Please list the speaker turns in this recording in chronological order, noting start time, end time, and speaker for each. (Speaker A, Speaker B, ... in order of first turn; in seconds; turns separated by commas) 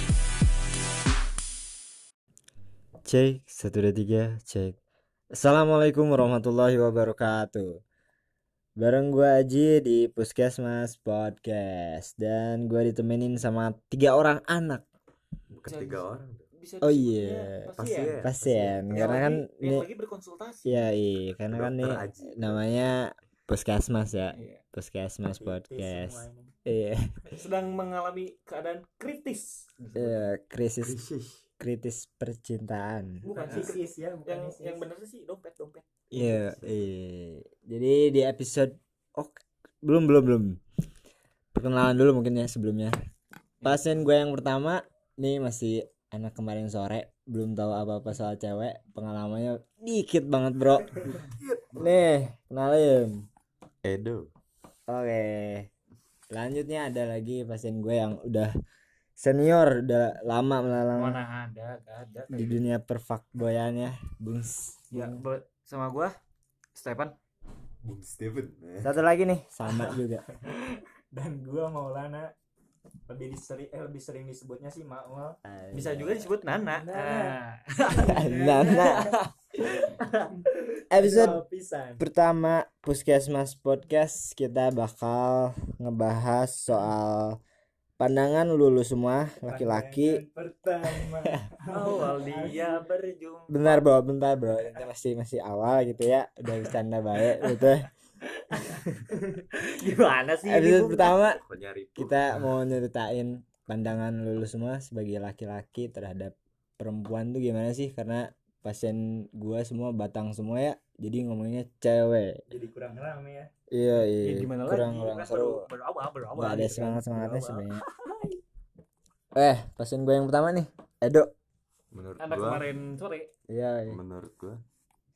Speaker A: 3.1-4.8, Speaker A: 5.3-7.8, Speaker A: 8.8-14.8, Speaker B: 15.5-16.5, Speaker C: 15.7-16.0, Speaker C: 16.6-18.2, Speaker A: 16.8-17.7, Speaker B: 17.8-19.0, Speaker A: 18.2-19.9, Speaker C: 18.9-20.9, Speaker A: 20.7-27.2, Speaker B: 21.5-22.7, Speaker C: 24.3-24.6, Speaker D: 25.3-26.5, Speaker C: 27.3-30.2, Speaker A: 29.9-31.0, Speaker B: 30.8-31.4, Speaker A: 31.6-33.2, Speaker C: 33.2-35.9, Speaker D: 33.4-34.8, Speaker A: 36.1-40.6, Speaker B: 36.1-36.9, Speaker A: 41.5-43.0, Speaker A: 43.6-53.3, Speaker B: 51.3-52.0, Speaker B: 53.8-54.3, Speaker A: 54.9-55.7, Speaker A: 56.3-58.5, Speaker A: 59.2-61.2, Speaker C: 61.0-62.4, Speaker A: 62.3-65.2, Speaker C: 64.9-66.2, Speaker C: 66.8-67.2, Speaker B: 67.8-68.9, Speaker A: 68.8-70.3, Speaker D: 71.1-72.3, Speaker D: 73.1-75.4, Speaker A: 75.5-76.3, Speaker C: 75.7-80.4, Speaker D: 76.7-77.4, Speaker D: 78.0-79.1, Speaker A: 78.0-79.1, Speaker A: 80.9-81.4, Speaker D: 81.0-82.0, Speaker A: 82.0-87.4, Speaker A: 88.0-90.2, Speaker D: 89.4-92.8, Speaker C: 91.7-93.8, Speaker A: 93.5-97.9, Speaker C: 98.3-101.2, Speaker A: 100.5-101.4, Speaker B: 101.1-102.5, Speaker A: 102.0-112.5, Speaker D: 112.5-113.5, Speaker A: 113.7-115.7, Speaker C: 114.2-117.6, Speaker A: 116.4-117.8, Speaker A: 119.3-121.3, Speaker B: 121.9-122.7, Speaker C: 122.2-123.3, Speaker A: 123.5-124.0, Speaker B: 123.9-124.6